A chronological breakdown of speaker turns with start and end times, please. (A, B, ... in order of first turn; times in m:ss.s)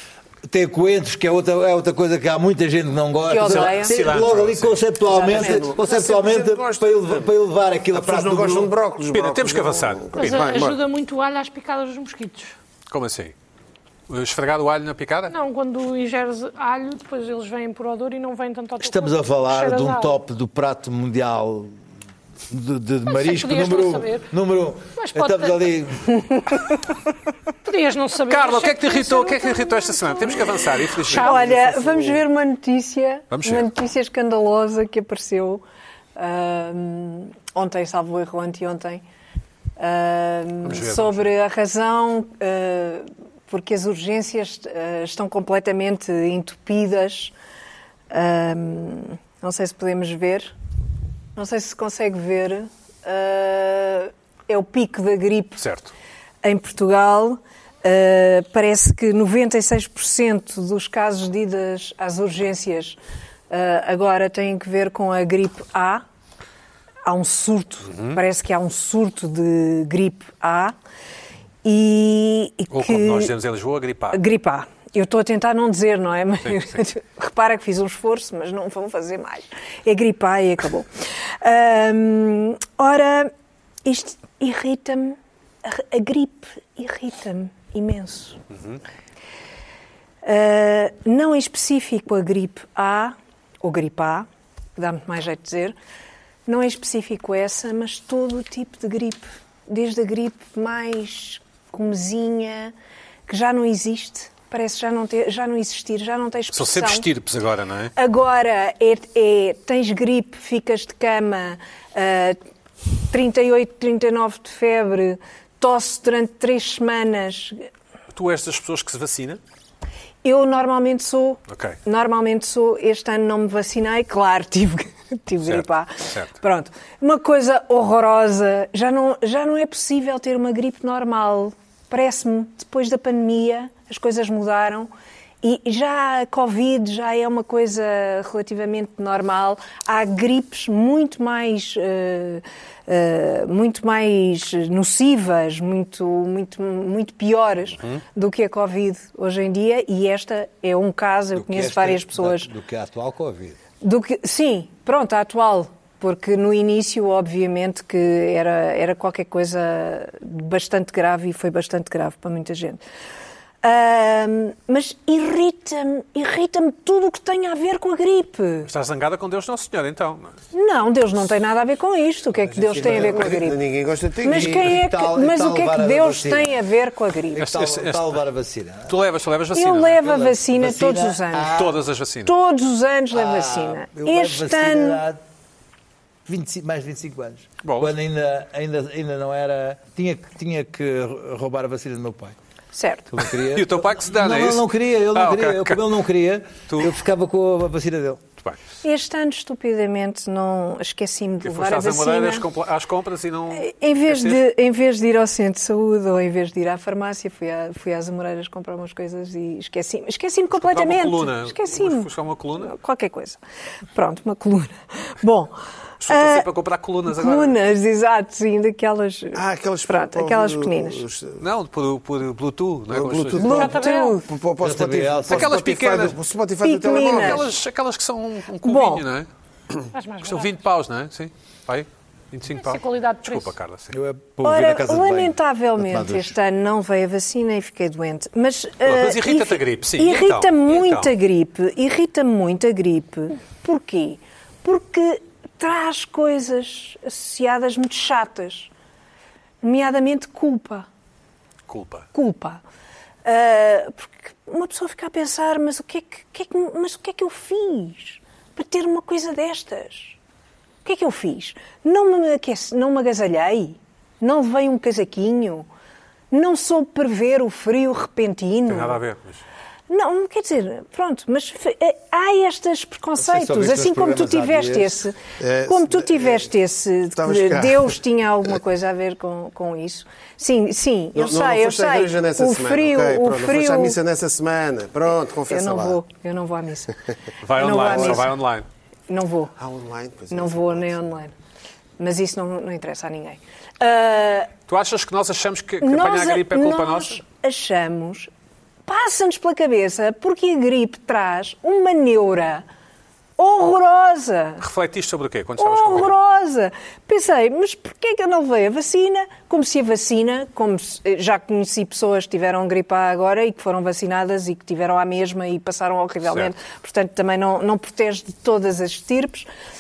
0:00.4-0:08.7 A
0:03.3-0:04.2 B
0:03.4-0:04.9 C
0:05.1-0:07.3 D
0:05.1-0:05.8 B
0:07.9-0:10.8 D
0:09.1-0:10.3 C
0:10.2-0:12.5 E
0:12.9-0:13.3 C
0:14.1-0:15.3 C
0:15.3-0:20.2 E
0:18.8-0:21.7 A
0:22.5-0:26.3 A
0:23.1-0:24.3 E
0:25.0-0:25.6 E
0:27.6-0:31.4 E
0:28.3-0:31.4 C
0:31.1-0:35.6 B
0:33.3-0:33.7 C
0:36.2-0:39.0 B
0:39.8-0:47.3 B
0:40.6-0:41.3 C
0:48.1-0:50.5 B
0:51.4-0:55.6 B
0:55.6-0:55.9 C
0:56.4-1:03.0 B
1:03.5-1:06.0 B
1:07.0-1:10.8 B
1:07.9-1:08.2 C
1:11.6-1:13.3 B
1:12.7-1:14.2 C
1:14.1-1:20.9 B
1:16.4-1:16.8 C
1:21.4-1:23.3 B
1:23.8-1:28.4 B
1:28.5-1:28.8 C
1:30.2-1:35.8 B
1:36.5-1:42.7 B
1:43.3-1:47.1 B
1:46.5-1:47.9 C
1:48.0-1:52.4 B
1:53.1-1:57.7 B
1:58.1-1:59.4 C
2:00.2-2:14.9 B
2:01.5-2:01.8 C
2:05.4-2:06.3 C
2:15.4-2:32.5 B
2:31.3-2:33.6 A
2:33.8-2:42.8 B
2:43.6-2:48.7 B
2:48.6-2:50.4 C
2:50.5-2:53.6 B
2:52.7-2:54.8 D
2:52.8-2:53.3 A
2:54.2-2:57.5 B
2:54.3-2:56.6 A
2:57.3-2:58.9 A
2:57.4-2:58.2 C
2:58.9-3:00.5 C
2:59.5-3:01.6 B
3:00.5-3:01.8 A
3:01.5-3:02.3 C
3:02.2-3:05.0 B
3:03.1-3:05.2 A
3:06.3-3:12.4 A
3:07.6-3:07.9 C
3:12.7-3:13.1 B
3:13.1-3:18.2 A
3:13.5-3:15.8 C
3:16.7-3:16.9 C
3:18.8-3:22.5 B
3:21.4-3:24.4 C
3:23.5-3:33.4 B
3:30.5-3:32.8 C
3:33.9-3:35.6 B
3:36.0-3:37.6 C
3:36.1-3:36.5 B
3:37.1-3:41.0 B
3:39.3-3:41.4 D
3:41.4-3:43.8 C
3:42.9-3:47.4 D
3:43.4-3:44.3 B
3:43.5-3:44.2 E
3:44.6-3:45.6 A
3:45.3-3:46.2 C
3:46.6-3:47.5 B
3:46.9-3:49.3 C
3:48.6-3:49.0 B
3:49.9-3:50.6 E
3:50.2-3:53.9 C
3:52.6-3:53.5 E
3:53.9-3:56.4 A
3:54.4-4:08.7 B
3:58.8-4:01.1 C
4:09.6-4:10.9 B
4:11.7-4:12.1 C
4:12.1-4:12.6 B
4:13.2-4:20.2 B
4:20.8-4:25.7 B
4:26.3-4:29.0 B
4:28.7-4:29.4 C
4:29.9-4:44.0 B
4:33.2-4:35.0 A
4:35.4-4:36.5 D
4:37.2-4:38.0 D
4:41.1-4:46.0 D
4:45.5-4:46.9 B
4:47.4-4:48.7 C
4:47.5-4:48.4 B
4:49.1-4:49.5 B
4:49.6-4:51.1 D
4:50.3-4:51.3 B
4:52.0-4:54.5 B
4:54.7-4:57.2 C
4:55.8-4:58.3 B
4:58.9-5:02.6 B
5:03.4-5:04.6 B
5:04.6-5:06.2 C
5:05.6-5:19.5 B
5:16.2-5:16.5 C